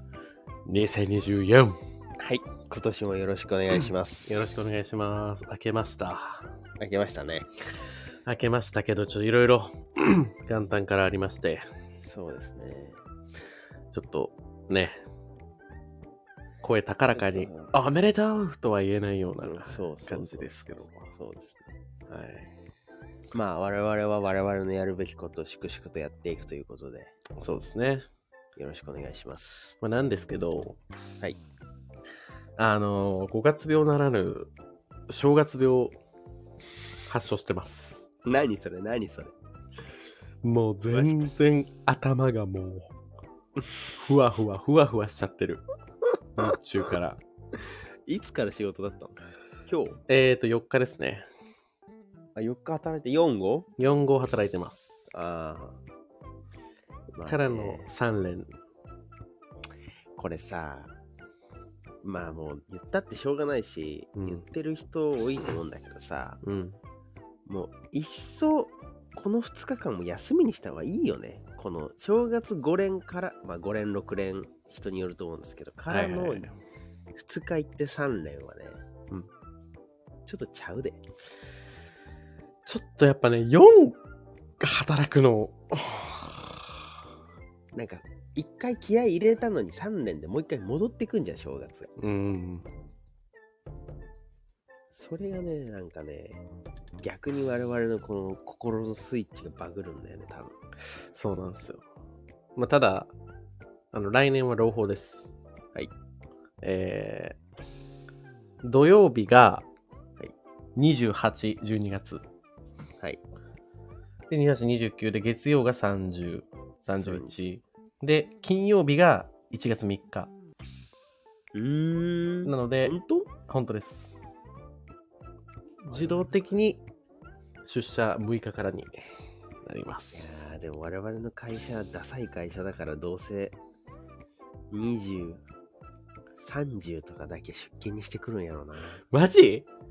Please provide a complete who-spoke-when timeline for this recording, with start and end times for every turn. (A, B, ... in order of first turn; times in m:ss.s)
0:00.7-0:01.8 A
0:02.2-0:04.6 B
0:04.3-0:06.5 A
0:06.8-0:07.5 B
0:08.2-0:11.6 A
0:12.0-0:13.0 B
0:13.9-0:15.0 A
0:16.6-0:21.1 A
0:17.1-0:17.7 B
0:19.4-0:21.7 B
0:22.1-0:22.5 A
0:23.3-0:27.1 B
0:27.4-0:28.1 A
0:28.6-0:29.8 B
0:29.8-0:30.8 A
0:32.6-0:34.5 A
0:35.1-0:36.0 A
0:37.1-0:38.1 A
0:38.2-0:39.3 B
0:40.4-0:42.9 A
0:40.9-0:41.2 B
0:44.0-0:45.6 A
0:46.4-0:47.2 A
0:48.1-0:50.0 B
0:50.1-0:51.3 A
0:52.4-0:53.7 B
0:53.8-0:55.0 A
0:55.1-0:55.8 B
0:57.1-0:57.9 B
0:57.2-0:58.5 A
1:00.2-1:00.9 B
1:02.0-1:06.4 B
1:04.2-1:04.4 A
1:06.4-1:06.8 A
1:07.5-1:16.5 B
1:15.9-1:16.6 A
1:17.2-1:18.8 B
1:20.2-1:21.0 B
1:22.7-1:24.0 A
1:24.6-1:27.0 A
1:27.7-1:31.9 B
1:32.0-1:32.7 A
1:34.9-1:36.4 B
1:37.0-1:40.6 B
1:41.1-1:41.8 A
1:42.6-1:43.1 A
1:43.9-1:45.3 A
1:46.6-1:47.4 A
1:48.6-1:49.7 A
1:50.8-1:52.2 A
1:54.3-2:00.3 A
1:57.0-1:57.3 B
2:01.5-2:03.3 B
2:02.5-2:03.0 A
2:03.5-2:04.2 A
2:05.9-2:06.8 A
2:05.9-2:06.3 B
2:07.6-2:09.0 A
2:09.6-2:10.5 A
2:10.1-2:13.6 B
2:14.7-2:15.4 B
2:16.3-2:19.0 B
2:19.1-2:19.7 A